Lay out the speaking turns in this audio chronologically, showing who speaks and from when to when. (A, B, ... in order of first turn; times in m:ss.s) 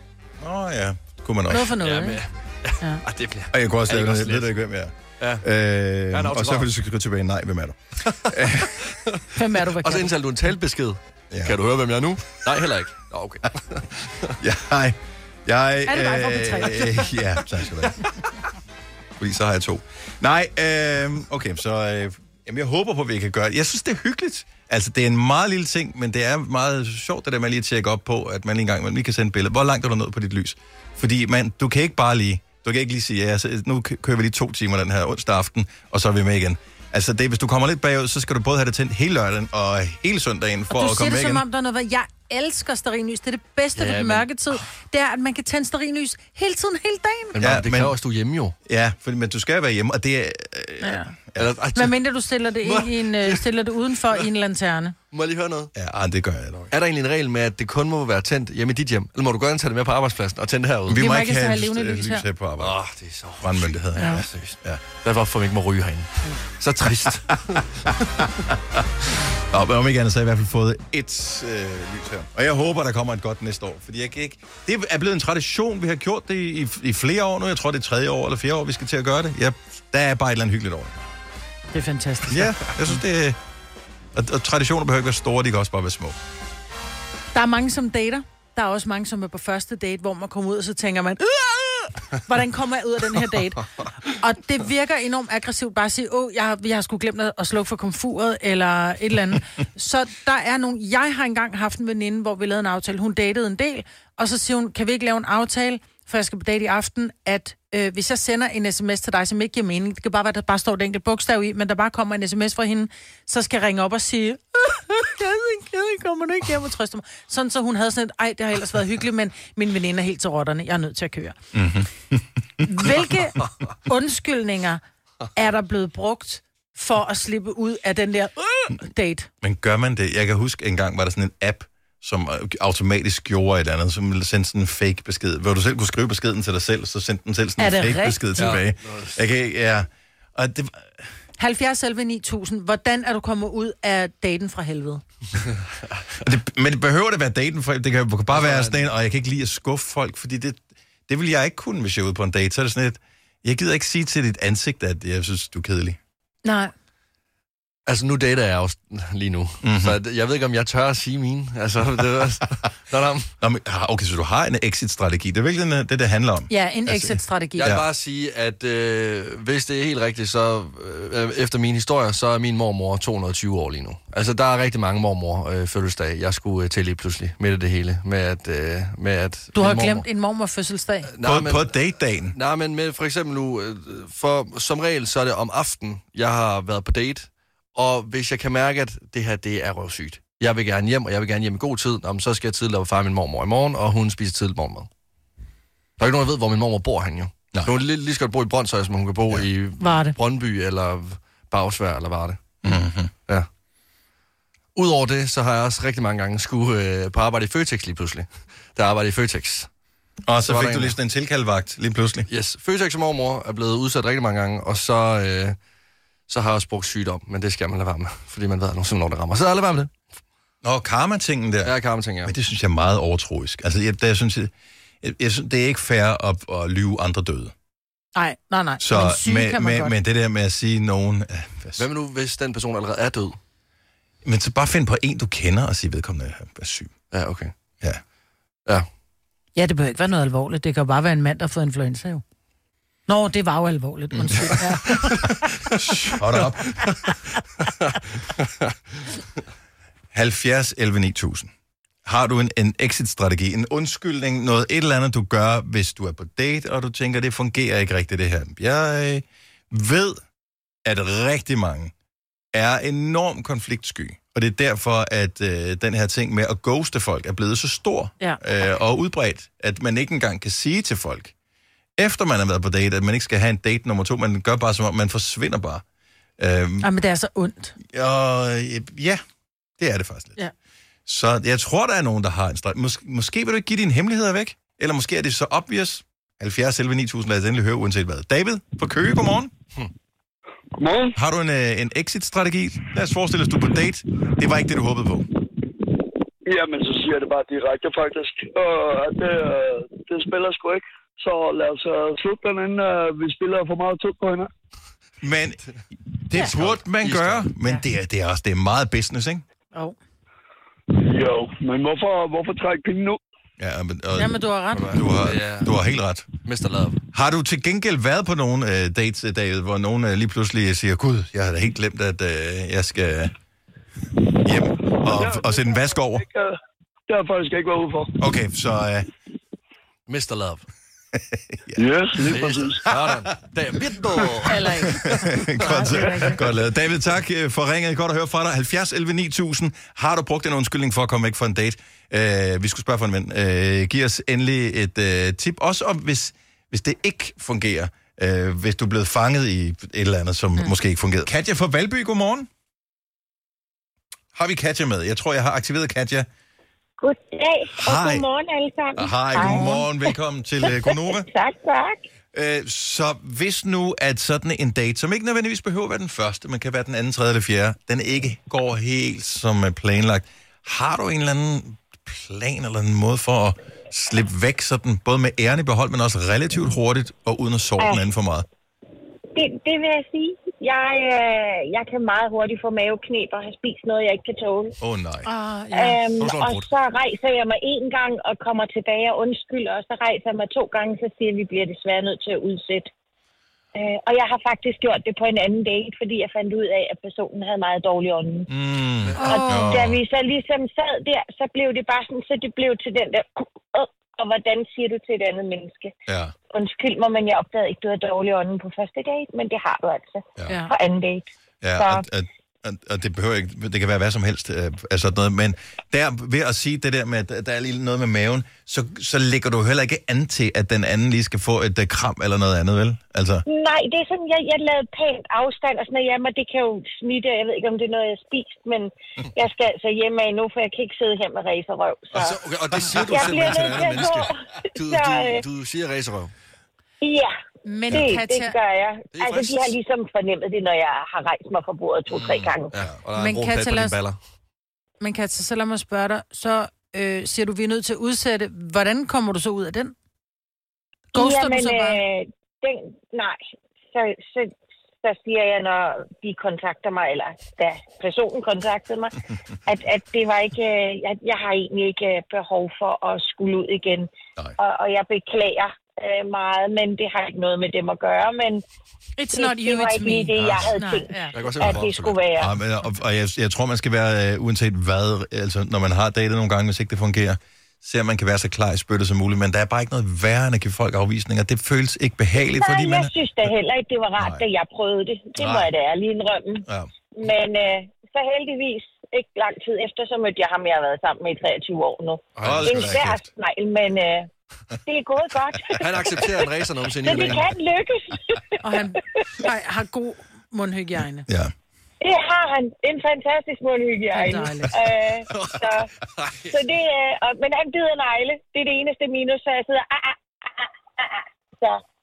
0:00.4-0:01.8 A
0:01.5-0:02.2 B
0:01.8-0:04.6 C
0:03.5-0:08.8 A
0:05.2-0:05.4 C
0:06.1-0:06.7 C
0:08.1-0:14.4 C
0:09.3-0:10.1 B
0:11.3-0:11.6 A
0:14.4-0:18.0 A
0:15.9-0:17.1 B
0:19.2-0:41.4 A
0:40.7-0:47.4 B
0:43.8-0:44.3 C
0:47.3-0:48.6 C
0:47.4-0:47.9 A
0:48.6-0:51.6 A
0:50.8-0:51.1 B
0:51.4-0:52.0 C
0:51.7-0:54.9 B
0:52.6-0:53.4 C
0:55.1-0:55.7 C
0:55.7-0:56.7 A
0:56.7-1:01.0 C
1:00.9-1:02.8 A
1:00.9-1:02.2 B
1:02.6-1:08.0 C
1:03.4-1:04.8 A
1:04.0-1:04.2 B
1:07.9-1:08.9 A
1:09.5-1:21.0 A
1:21.7-1:22.9 B
1:22.3-1:23.4 A
1:24.1-1:26.2 A
1:27.3-2:01.4 B
2:01.5-2:02.9 A
2:02.6-2:04.8 B
2:05.3-2:09.3 B
2:09.4-2:21.1 A
2:17.6-2:18.6 B
2:18.4-2:19.2 C
2:21.4-2:25.0 B
2:25.5-2:26.0 C
2:26.2-2:36.0 A
2:28.3-2:28.8 C
2:36.4-2:36.7 B
2:37.9-2:43.3 C
2:39.6-2:40.0 A
2:43.4-2:47.9 A
2:46.5-2:47.7 B
2:47.6-3:00.0 C
2:59.6-3:01.1 B
3:01.1-3:01.7 C
3:01.2-3:02.4 A
3:02.3-3:14.9 C
3:16.0-3:22.6 C
3:19.8-3:20.2 B
3:22.6-3:23.1 A
3:24.8-3:29.7 C
3:30.2-3:32.3 A
3:30.4-3:31.0 C
3:32.3-3:35.6 C
3:36.3-3:39.9 C
3:40.6-3:41.7 A
3:41.6-3:42.3 C
3:42.2-3:47.5 A
3:48.1-3:49.9 B
3:48.8-3:51.9 A
3:51.8-3:53.4 C
3:54.2-3:56.9 A
3:57.1-3:57.5 C
3:59.6-4:02.2 B
4:03.1-4:05.3 B
4:04.1-4:04.7 A
4:05.7-4:06.8 A
4:08.4-4:08.7 C
4:10.1-4:11.5 A
4:12.0-4:20.2 A
4:20.8-4:21.9 A
4:22.5-4:31.3 A
4:32.0-4:35.8 A
4:36.4-4:36.9 A
4:36.8-4:37.8 B
4:37.9-4:39.2 A
4:39.8-4:40.4 A
4:41.0-4:49.5 A
4:50.8-4:51.2 D
4:51.2-4:55.3 A
4:56.4-5:04.5 D
5:05.2-5:05.6 A
5:06.3-5:09.4 A
5:06.5-5:07.5 C
5:10.9-5:13.2 D
5:13.6-5:14.4 A
5:14.1-5:14.9 B
5:14.7-5:15.7 C
5:14.9-5:16.3 A
5:16.4-5:17.0 C
5:17.1-5:23.3 A
5:24.4-5:26.2 A
5:25.0-5:26.6 D
5:27.1-5:28.2 D
5:28.2-5:29.1 A
5:30.1-5:30.6 C
5:31.1-5:31.8 A
5:31.8-5:32.8 D
5:32.3-5:34.8 C
5:32.8-5:33.2 A
5:34.4-5:36.4 B
5:35.0-5:52.5 A
5:35.7-5:36.0 C
5:54.3-5:56.3 A
5:57.0-6:02.0 E
5:57.8-5:58.2 A
5:59.0-6:01.3 A
6:02.3-6:18.5 A
6:17.8-6:18.0 E
6:19.3-6:24.7 E
6:24.8-6:25.3 A
6:25.2-6:26.0 B
6:25.7-6:32.9 E
6:26.2-6:26.6 C
6:33.7-6:38.5 E
6:38.5-6:40.0 A
6:39.2-6:39.8 B
6:39.2-6:45.9 E
6:46.1-6:46.3 A
6:46.5-6:52.1 E
6:50.5-6:50.7 B
6:51.6-7:03.4 A
7:03.4-7:12.4 E
7:12.1-7:16.3 C
7:13.0-7:14.0 A
7:13.0-7:15.4 E
7:17.0-7:17.3 E
7:17.6-7:18.6 B
7:17.9-7:22.7 E
7:19.1-7:19.8 C
7:22.1-7:22.9 A
7:22.7-7:24.2 C
7:23.2-7:24.0 B
7:25.0-7:29.9 B
7:31.1-7:32.0 B
7:31.1-7:48.6 E
7:49.2-7:51.4 B
7:49.3-7:52.6 E
7:50.4-7:50.7 A
7:51.3-7:52.2 C
7:52.4-8:03.5 A
8:02.4-8:14.3 E
8:04.2-8:04.4 A
8:05.4-8:05.7 A
8:06.6-8:06.9 A
8:12.4-8:12.8 C
8:12.4-8:13.2 A
8:14.9-8:15.8 E
8:15.8-8:17.5 C
8:17.0-8:19.5 E
8:18.6-8:21.3 B
8:21.3-8:21.5 A
8:22.0-8:25.9 E
8:24.1-8:24.7 B
8:25.3-8:25.6 C
8:26.2-8:26.5 C
8:26.5-8:31.8 E